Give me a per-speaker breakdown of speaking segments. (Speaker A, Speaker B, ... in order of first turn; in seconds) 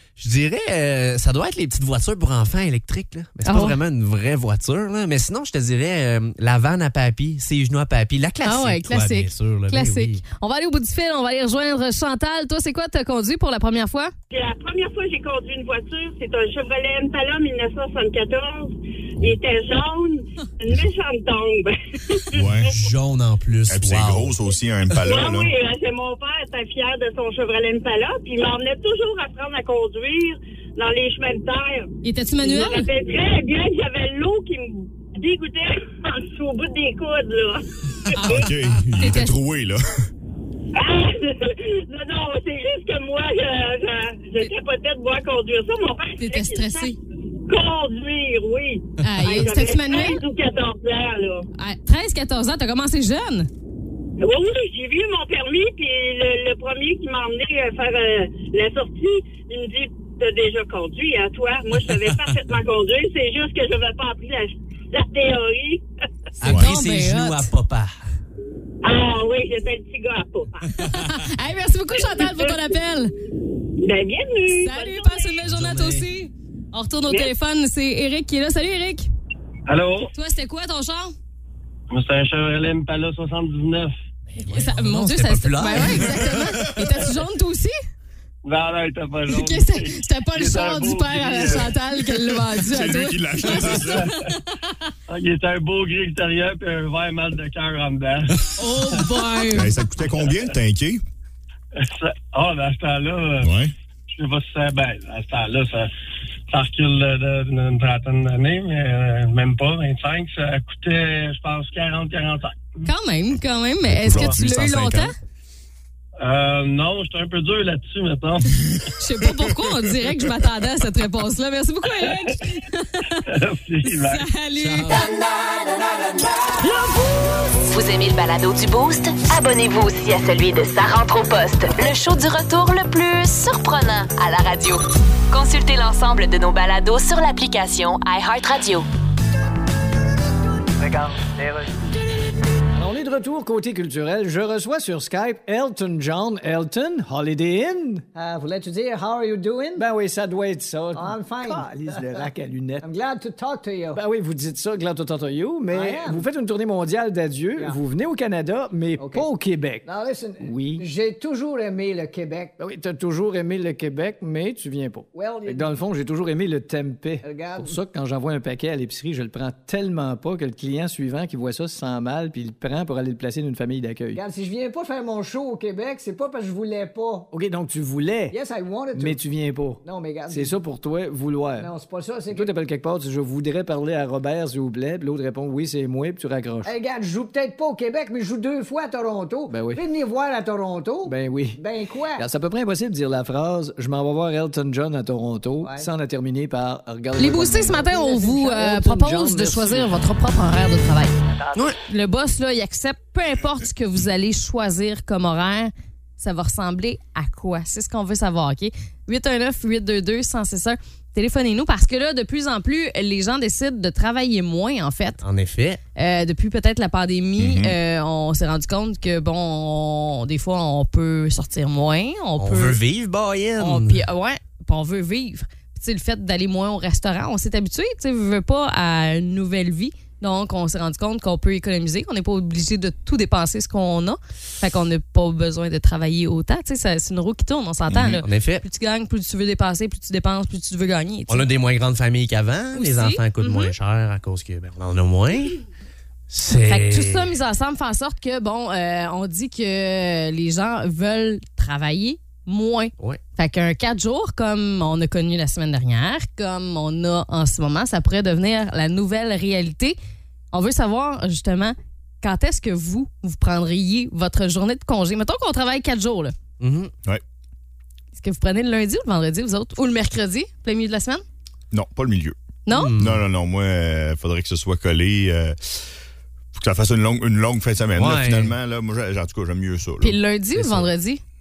Speaker A: 0.2-10.2, 22.7-24.4, 66.4-67.9, 75.4-76.1, 84.3-86.3, 124.5-125.1, 215.2-215.8, 222.4-224.0, 238.2-238.6, 241.3-245.6, 246.3-247.3, 266.6-266.9, 272.7-273.2, 277.9-278.6, 280.5-280.9
Speaker B: 3.5-3.8, 8.4-14.1, 32.0-32.9, 39.0-39.4, 46.2-47.0, 49.0-50.2, 51.5-53.5, 66.4-67.5, 70.7-73.1, 74.5-79.0, 80.1-81.1, 84.4-87.7, 89.3-94.8, 98.6-99.8, 112.8-115.1, 118.9-123.2, 124.0-125.0, 197.2-201.1, 201.8-215.2, 215.9-222.8, 223.6-241.4, 242.7-243.7, 246.6-259.9, 260.5-266.3, 268.1-271.2, 272.6-273.0, 280.0-281.2
Speaker C: 14.3-22.5, 25.0-38.5, 40.7-46.9, 47.5-51.5, 54.2-65.8, 68.8-70.8, 72.0-72.7, 73.8-75.4
Speaker D: 22.3-22.7, 23.7-25.5, 38.2-40.1, 66.4-66.7, 86.0-86.6, 91.4-91.7, 92.3-94.1, 99.5-101.0, 103.4-103.7, 113.8-115.1, 217.4-217.8, 237.9-238.2, 271.7-272.4, 273.0-275.9, 276.5-280.2
Speaker E: 79.7-80.1, 81.9-83.9, 88.4-91.7, 93.6-94.1, 95.1-99.0, 101.8-103.5, 104.2-105.9, 106.5-112.6, 116.2-118.9, 123.2-124.3
Speaker F: 127.7-138.8
Speaker G: 140.8-141.8, 148.1-149.8, 150.9-152.3, 152.8-154.0, 155.7-156.2, 158.9-159.3, 159.8-162.5, 165.1-165.8, 167.2-167.8, 174.1-177.3, 178.3-179.2, 179.8-180.6, 181.6-182.5, 186.6-192.2, 195.6-195.9
Speaker H: 142.7-148.0, 149.8-152.8, 153.9-159.8, 160.4-160.9, 162.6-174.2, 177.3-178.4, 178.9-181.7, 182.3-186.7, 189.5-189.8, 191.0-191.6, 192.2-200.0